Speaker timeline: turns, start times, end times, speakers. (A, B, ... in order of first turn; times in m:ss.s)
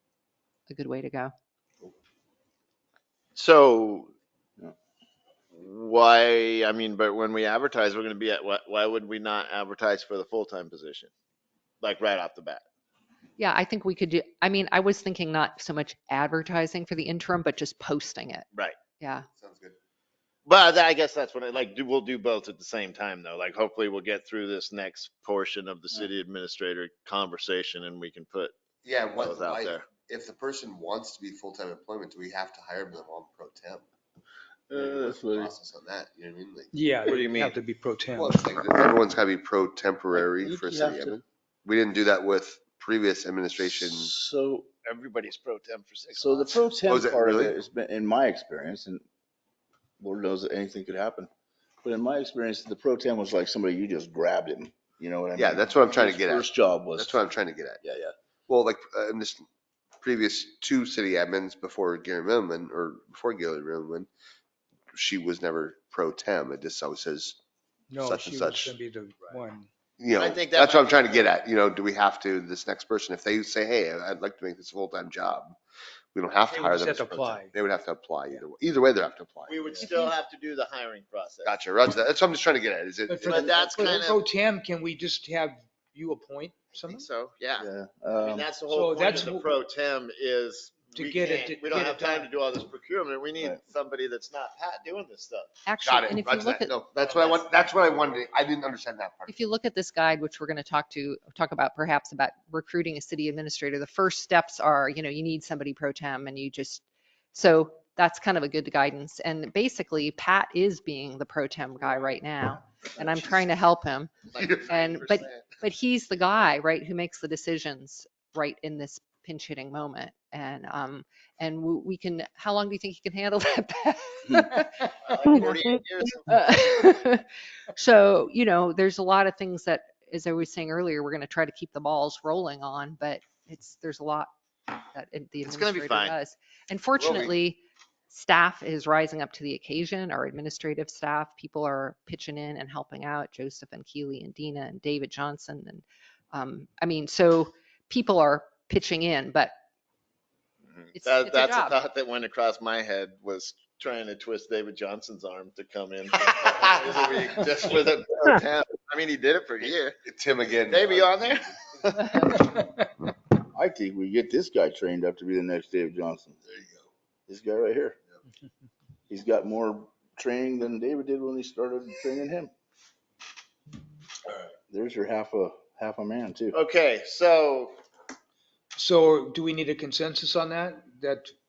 0:00.7-0:01.3 A
0:03.3-0:04.1 B
0:05.5-0:11.1 B
0:11.8-0:12.6 B
0:13.4-0:18.4 A
0:19.0-0:19.2 A
0:19.2-0:19.8 C
0:20.4-0:28.5 B
0:28.8-0:33.8 C
0:29.1-0:29.9 B
0:34.7-0:35.5 D
0:34.7-0:37.2 C
0:36.7-0:38.5 E
0:37.0-0:37.6 B
0:38.1-0:44.1 C
0:40.1-0:41.2 D
0:43.6-0:44.7 D
0:44.8-0:46.6 B
0:46.1-0:49.0 D
0:46.9-0:47.6 C
0:50.0-0:51.3 D
0:51.8-0:57.2 D
0:55.3-0:57.8 C
0:57.8-0:58.1 D
0:58.5-0:59.4 C
1:00.0-1:04.1 C
1:04.9-1:07.4 C
1:07.9-1:09.7 E
1:08.0-1:08.8 C
1:10.0-1:15.6 C
1:10.2-1:11.3 B
1:16.1-1:19.9 C
1:16.5-1:17.5 E
1:19.5-1:21.6 B
1:19.8-1:20.1 E
1:21.4-1:24.0 C
1:23.1-1:27.1 E
1:23.3-1:24.2 B
1:26.7-1:27.7 B
1:27.6-1:28.5 D
1:28.2-1:35.5 B
1:28.7-1:29.5 E
1:30.9-1:32.3 E
1:35.6-1:36.7 A
1:35.8-1:39.5 C
1:37.0-1:38.4 B
1:39.3-2:05.5 A
1:53.0-1:53.4 D
1:54.3-1:54.6 B
1:54.3-1:55.5 C
2:05.0-2:06.4 B
2:06.2-2:14.3 A
2:14.9-2:29.5 A
2:15.4-2:16.2 B
2:17.0-2:17.4 C
2:30.7-2:40.0 B
2:30.9-2:31.8 A
2:39.6-2:42.0 C
2:40.7-2:42.1 B
2:42.1-2:42.7 E
2:43.5-2:46.4 D
2:46.5-2:46.9 C
2:47.3-2:48.0 D
2:49.1-2:52.5 D
2:54.7-2:56.6 D
2:56.5-2:57.8 B
2:58.8-3:01.3 E